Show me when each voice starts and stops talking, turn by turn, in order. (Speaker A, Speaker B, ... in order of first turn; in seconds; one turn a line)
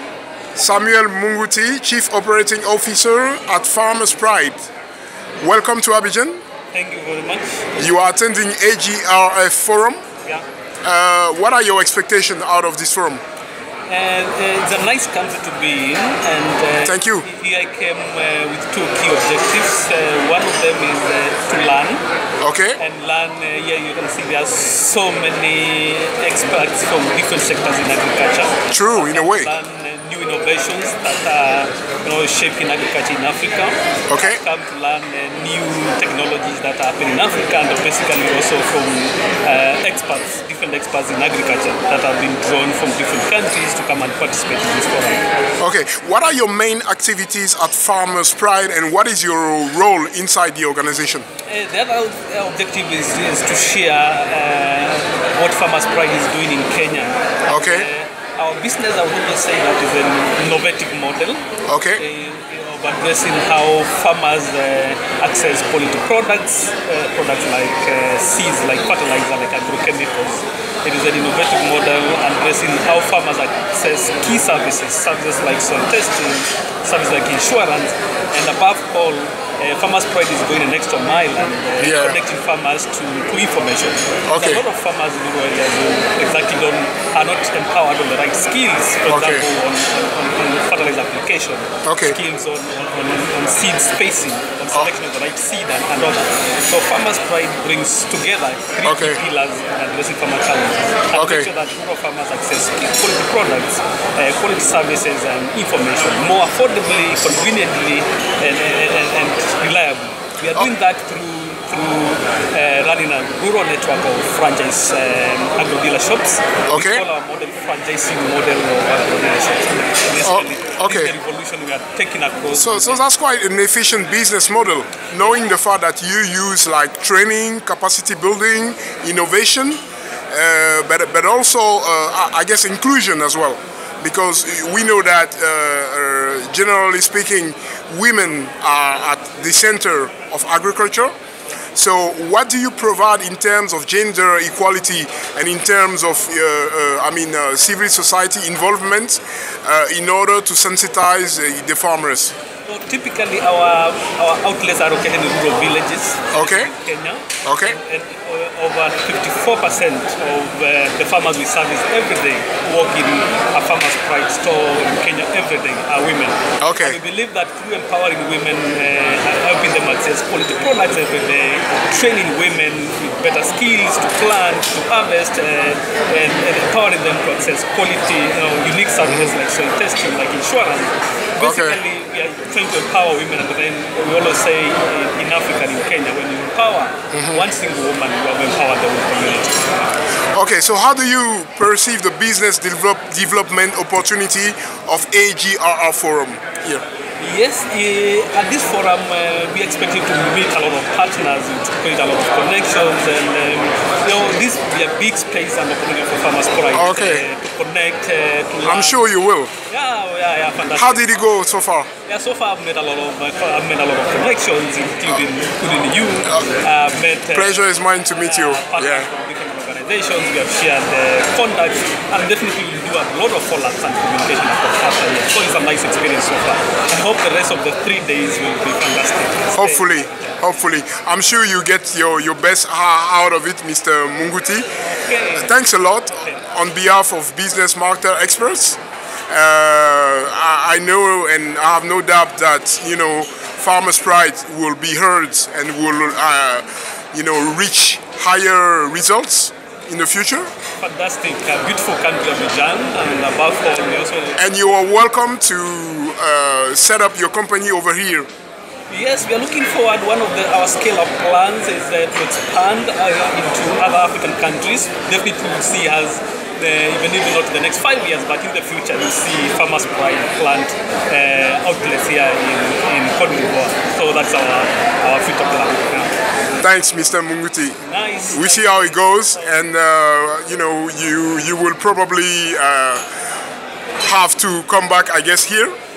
Speaker A: 0.6-4.7
Speaker A: 5.4-6.4
Speaker B: 6.7-7.7
Speaker A: 7.8-10.0
Speaker A: 10.8-13.2
Speaker B: 13.9-22.0
Speaker A: 16.8-17.3
Speaker A: 22.4-22.8
Speaker B: 22.8-45.2
Speaker A: 28.7-29.5
Speaker A: 34.1-34.4
Speaker A: 45.6-51.2
Speaker B: 51.4-61.4
Speaker A: 57.5-57.9
Speaker A: 61.7-62.0
Speaker B: 62.0-123.0
Speaker A: 81.8-82.2
Speaker A: 84.3-84.6
Speaker A: 89.1-89.5
Speaker A: 91.8-92.2
Speaker A: 98.8-99.2
Speaker A: 101.2-101.5
Speaker A: 116.7-117.0
Speaker A: 120.2-121.1
Speaker A: 122.5-129.8
Speaker A: 130.3-141.1
Speaker A: 141.7-152.3
Speaker B: 152.6-189.8
Speaker A: 156.3-156.7
Speaker A: 157.4-157.8
Speaker A: 166.6-167.0
Speaker A: 181.4-181.8
Speaker A: 187.1-187.4
Speaker A: 190.3-196.8
Speaker B: 197.2-209.1
Speaker A: 206.7-207.3
Speaker A: 208.6-209.5
Speaker B: 209.7-211.1
Speaker A: 210.8-211.9
Speaker B: 212.1-230.4
Speaker A: 216.3-216.6
Speaker A: 217.3-219.1
Speaker A: 229.5-234.6
Speaker B: 234.8-235.5
Speaker A: 235.4-238.8
Speaker B: 236.1-236.4
Speaker A: 239.3-250.5
Speaker B: 250.8-254.4
Speaker A: 254.4-258.3
Speaker B: 258.9-276.1
Speaker A: 276.6-277.8
Speaker B: 277.8-279.6
Speaker A: 278.3-283.0
Speaker A: 284.0-285.8